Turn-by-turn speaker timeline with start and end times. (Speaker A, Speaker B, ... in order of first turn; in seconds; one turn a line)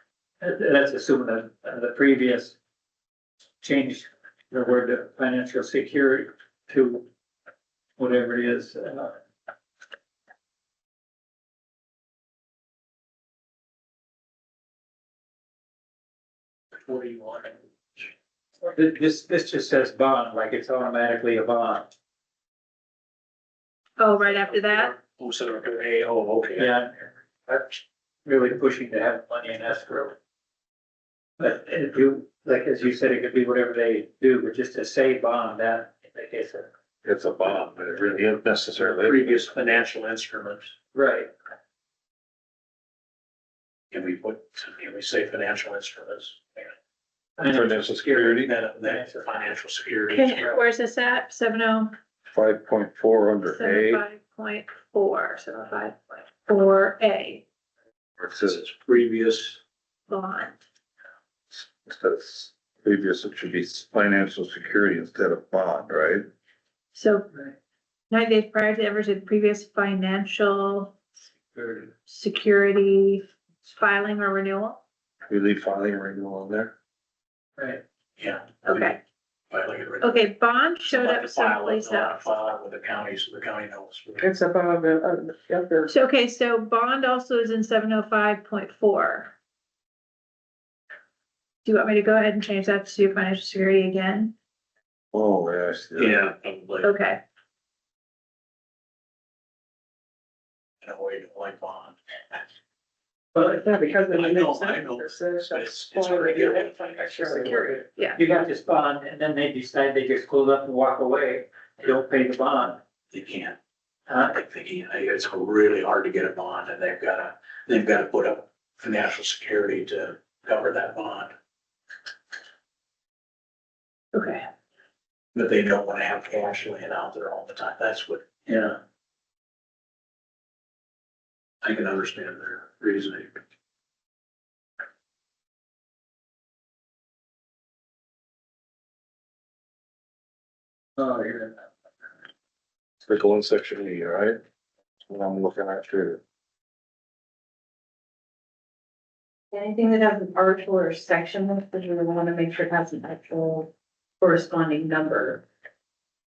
Speaker A: 0.4-2.6
Speaker A: 3.6-7.0
Speaker A: 8.0-9.1
Speaker B: 16.7-17.5
Speaker A: 18.6-21.9
Speaker C: 24.0-24.9
Speaker B: 24.2-26.7
Speaker A: 26.6-30.1
Speaker A: 31.4-36.7
Speaker D: 37.0-39.4
Speaker B: 38.8-40.7
Speaker A: 40.9-41.3
Speaker B: 43.9-46.7
Speaker A: 47.4-49.3
Speaker D: 47.4-48.5
Speaker B: 48.4-50.5
Speaker C: 50.1-51.9
Speaker D: 52.3-54.0
Speaker C: 53.5-57.4
Speaker D: 58.2-58.6
Speaker B: 58.4-59.6
Speaker C: 60.1-60.5
Speaker D: 61.5-66.2
Speaker C: 66.9-67.3
Speaker C: 68.1-71.0
Speaker A: 71.5-71.8
Speaker C: 72.0-74.8
Speaker D: 75.3-76.7
Speaker B: 78.2-79.0
Speaker C: 78.6-79.0
Speaker B: 79.5-80.3
Speaker C: 80.0-82.2
Speaker B: 80.9-84.3
Speaker E: 84.2-85.9
Speaker C: 85.9-89.3
Speaker C: 91.7-94.3
Speaker D: 95.1-96.3
Speaker B: 96.0-96.9
Speaker C: 96.8-97.2
Speaker B: 100.8-102.4
Speaker E: 103.3-108.0
Speaker B: 104.0-107.6
Speaker A: 108.1-112.8
Speaker B: 113.1-113.6
Speaker B: 114.2-121.3
Speaker C: 124.1-124.4
Speaker B: 125.3-128.8
Speaker B: 131.6-133.3
Speaker A: 141.0-141.6
Speaker D: 143.1-144.4
Speaker D: 145.1-146.2
Speaker F: 149.5-155.4